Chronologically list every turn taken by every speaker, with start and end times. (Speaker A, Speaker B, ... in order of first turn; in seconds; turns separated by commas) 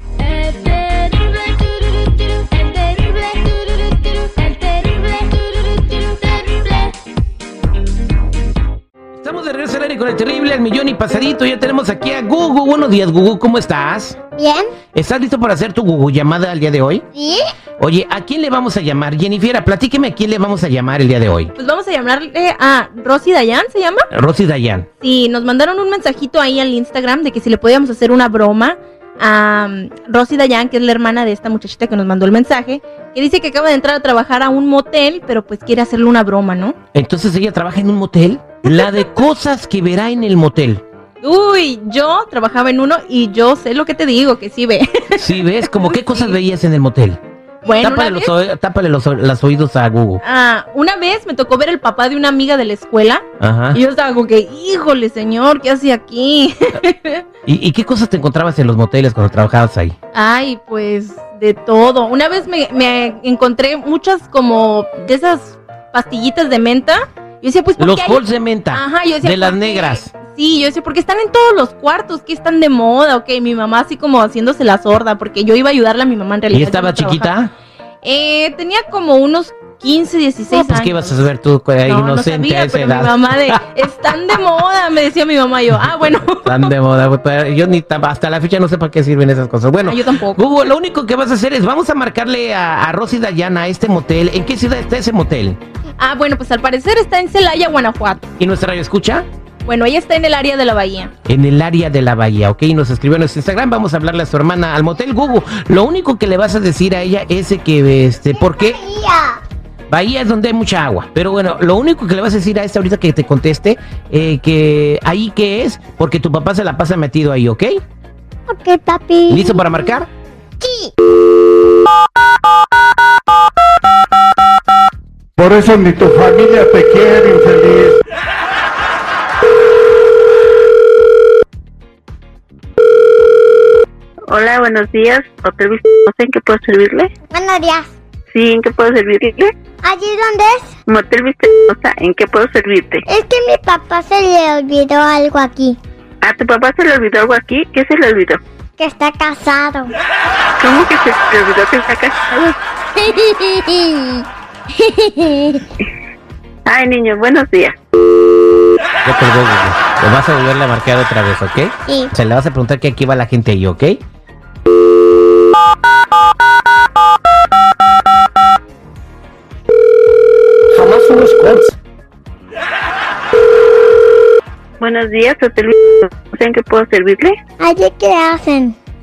Speaker A: 0.2-7.0, Speaker B: 9.2-14.2, Speaker C: 14.3-14.7, Speaker B: 14.9-17.0, Speaker C: 17.1-17.4, Speaker B: 17.8-21.5, Speaker A: 21.6-24.1, Speaker B: 24.1-24.9, Speaker A: 25.0-36.8, Speaker B: 36.9-40.8, Speaker A: 38.7-39.0, Speaker A: 41.2-46.3, Speaker B: 45.2-47.2, Speaker A: 47.6-48.3, Speaker B: 47.8-50.2, Speaker A: 50.2-57.2, Speaker B: 53.4-53.8, Speaker B: 57.4-59.9, Speaker A: 60.1-77.3, Speaker B: 67.8-70.1, Speaker B: 76.5-77.5, Speaker A: 78.0-81.3, Speaker B: 80.5-83.6, Speaker A: 81.8-86.7, Speaker B: 86.4-95.6, Speaker A: 89.8-90.6, Speaker A: 96.0-98.3, Speaker B: 98.4-99.2, Speaker A: 99.6-101.1, Speaker B: 101.2-108.8, Speaker C: 108.3-109.4, Speaker B: 109.9-117.8, Speaker C: 118.5-119.6, Speaker B: 119.3-120.1, Speaker C: 120.6-120.9, Speaker D: 125.4-128.0, Speaker E: 134.3-137.1, Speaker C: 137.3-137.9, Speaker E: 138.3-139.5, Speaker C: 139.8-140.7, Speaker E: 140.9-143.0, Speaker C: 143.1-145.8, Speaker E: 146.2-148.4, Speaker C: 148.8-149.9, Speaker E: 150.6-152.5, Speaker C: 153.0-155.6, Speaker E: 156.7-157.7, Speaker B: 159.0-164.0, Speaker B: 170.7-171.7, Speaker E: 174.8-177.3, Speaker C: 177.6-178.8